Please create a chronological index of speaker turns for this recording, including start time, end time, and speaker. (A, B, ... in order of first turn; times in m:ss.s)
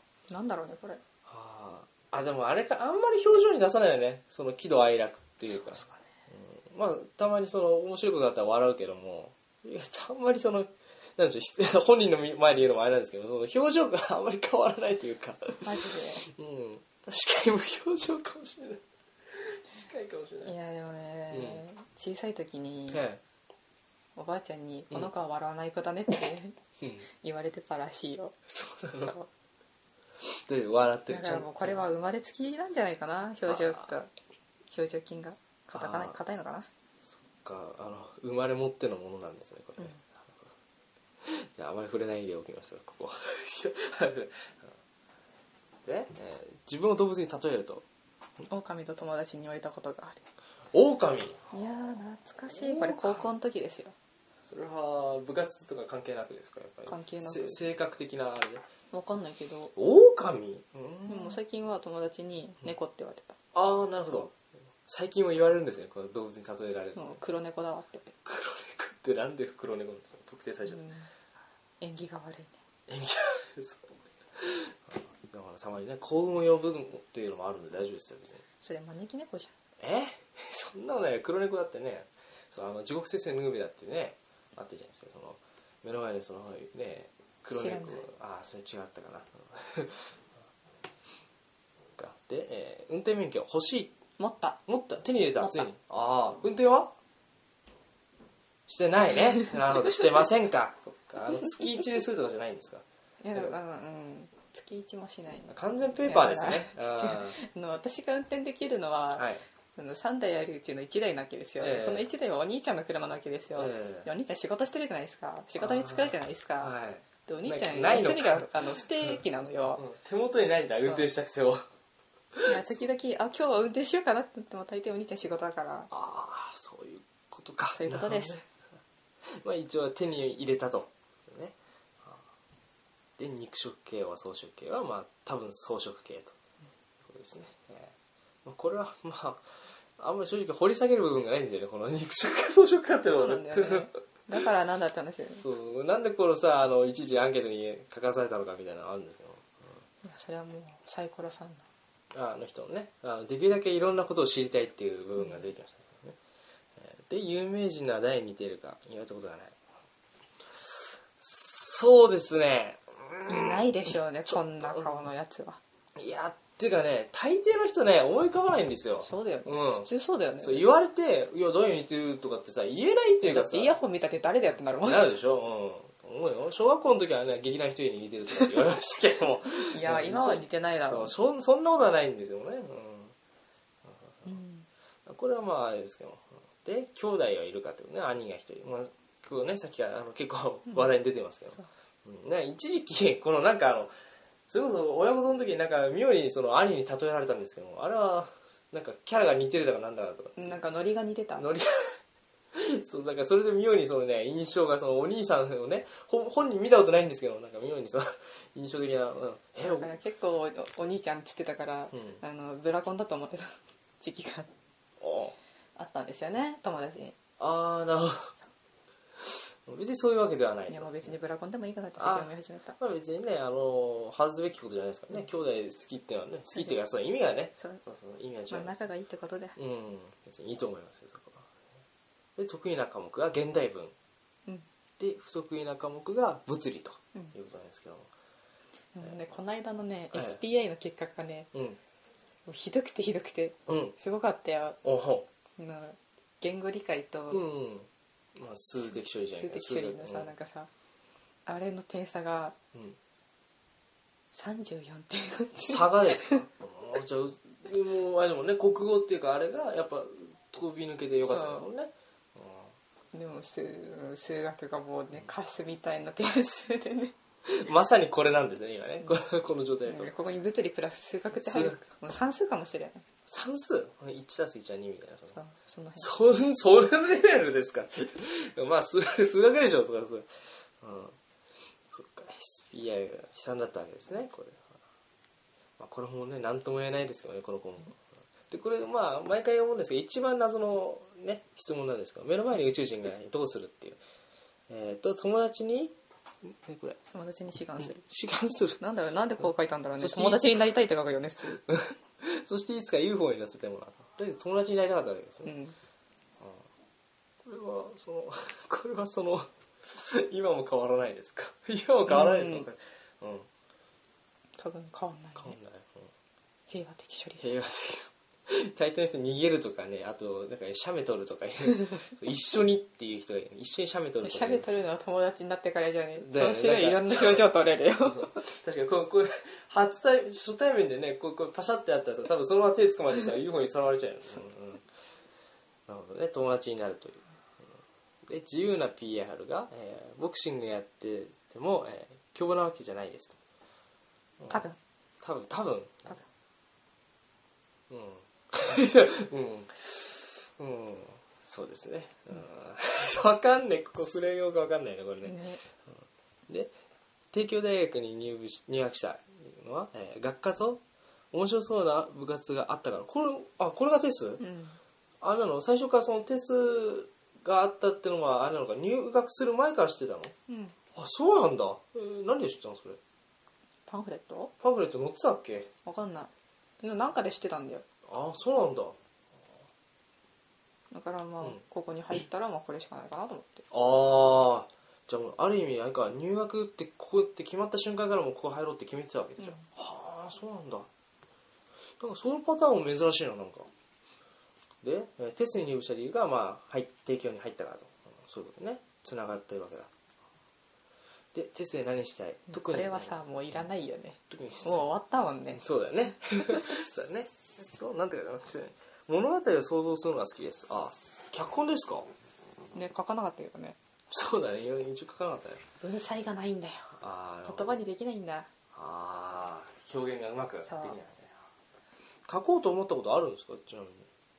0:00.3-0:01.0 A
0:01.2-0:20.5 B
0:15.6-0:16.3 A
0:20.4-0:23.0 A
0:21.3-0:21.6 B
0:22.9-0:23.2 B
0:24.2-0:26.6 A
0:26.8-0:27.1 B
0:27.2-0:28.4 A
0:28.5-0:29.1 B
0:28.9-0:29.3 A
0:30.2-0:31.9 B
0:31.1-0:34.1 A
0:33.4-0:33.9 B
0:34.7-0:36.7 A
0:35.7-0:36.2 B
0:37.0-0:40.5 B
0:41.2-0:44.7 B
0:45.8-0:47.8 B
0:48.4-0:50.2 A
0:50.7-0:51.4 B
0:51.5-0:53.9 A
0:52.5-0:53.3 B
0:54.4-0:58.6 B
0:56.9-0:57.6 A
0:58.9-0:59.7 A
0:59.8-1:01.4 B
1:01.0-1:03.4 A
1:03.5-1:07.2 B
1:07.0-1:08.1 A
1:08.2-1:10.8 B
1:10.6-1:11.1 A
1:11.8-1:12.6 A
1:12.9-1:18.4 B
1:18.6-1:19.5 A
1:19.8-1:30.1 B
1:27.5-1:28.0 A
1:32.0-1:34.0 B
1:34.2-1:34.6 A
1:34.7-1:36.9 B
1:35.4-1:35.6 A
1:38.7-1:43.6 B
1:43.2-1:56.7 A
1:45.5-1:47.4 B
1:49.1-1:49.4 B
1:51.6-1:52.0 B
1:53.6-1:54.1 B
1:55.6-1:59.2 B
1:57.2-1:59.8 A
1:59.7-2:01.6 B
2:00.8-2:01.1 A
2:02.4-2:02.8 B
2:02.4-2:05.9 A
2:05.9-2:08.4 B
2:07.7-2:08.4 A
2:09.4-2:12.2 B
2:13.2-2:16.4 B
2:17.0-2:19.4 B
2:20.0-2:23.9 B
2:23.1-2:25.4 A
2:25.3-2:29.7 B
2:30.0-2:31.6 A
2:32.1-2:36.2 B
2:36.8-2:39.6 B
2:40.6-2:43.7 B
2:43.3-2:45.6 A
2:44.3-2:44.9 B
2:46.0-2:49.9 B
2:49.0-2:50.7 A
2:50.4-2:53.7 B
2:53.2-2:55.1 A
2:54.6-3:03.1 B
2:59.7-3:01.1 A
3:03.8-3:04.4 B
3:04.2-3:04.7 A
3:05.0-3:13.9 B
3:14.5-3:20.4 B
3:20.4-3:21.5 A
3:21.4-3:22.0 B
3:22.5-3:29.9 B
3:29.6-3:34.5 A
3:31.9-3:32.2 B
3:35.0-3:35.4 B
3:35.8-3:37.1 A
3:37.4-3:38.3 B
3:39.2-3:41.1 B
3:40.7-3:42.8 A
3:42.0-3:48.8 B
3:48.5-3:49.6 A
3:49.6-3:51.5 B
3:52.4-3:53.9 B
3:55.0-3:58.1 B
3:59.0-4:01.5 A
4:00.1-4:00.4 B
4:01.5-4:01.8 B
4:02.4-4:04.8 A
4:03.7-4:03.9 B
4:04.8-4:05.3 B
4:05.6-4:07.4 A
4:07.3-4:10.3 B
4:09.3-4:10.7 A
4:11.4-4:12.5 A
4:14.3-4:16.4 A
4:15.6-4:22.7 B
4:21.2-4:21.7 A
4:23.1-4:27.1 A
4:27.4-4:30.1 B
4:29.8-4:33.0 A
4:31.3-4:31.8 B
4:33.3-4:35.4 B
4:35.4-4:36.1 A
4:36.0-4:40.3 B
4:40.8-4:41.2 B
4:41.9-4:44.8 B
4:45.8-4:54.0 B
4:54.7-4:57.0 B
4:57.1-4:58.0 A
4:57.8-4:58.8 B
4:58.8-5:01.6 A
5:00.0-5:00.8 B
5:01.5-5:05.5 B
5:05.4-5:05.8 A
5:06.4-5:06.6 B
5:07.4-5:13.5 B
5:12.1-5:12.7 A
5:14.6-5:15.6 A
5:15.4-5:16.1 B
5:16.7-5:17.4 A
5:17.4-5:24.7 B
5:24.2-5:28.5 A
5:26.2-5:27.5 B
5:28.2-5:34.8 B
5:35.9-5:37.2 B
5:38.3-5:43.4 B
5:44.4-5:44.6 B
5:44.5-5:44.8 A
5:45.2-5:46.2 B
5:47.9-5:55.4 B
5:55.2-5:55.6 A
5:56.5-5:56.7 B
5:57.3-6:04.4 B
6:04.4-6:04.8 A
6:05.2-6:10.3 B
6:10.5-6:10.7 A
6:10.9-6:13.0 B
6:13.9-6:14.5 A
6:14.6-6:15.7 B
6:15.8-6:16.3 A
6:16.8-6:17.8 A
6:18.1-6:19.0 B
6:20.9-6:23.6 A
6:23.7-6:30.9 B
6:29.4-6:29.7 A
6:32.0-6:33.7 B
6:34.8-6:39.9 B
6:41.3-6:43.2 B
6:42.5-6:45.6 A
6:44.3-6:44.9 B
6:45.5-6:52.1 B
6:46.3-6:46.6 A
6:52.7-6:53.8 A
6:54.1-6:55.6 B
6:55.8-6:58.5 A
6:57.0-6:57.8 B
6:58.7-7:01.3 B
7:00.6-7:01.0 A
7:02.3-7:04.0 B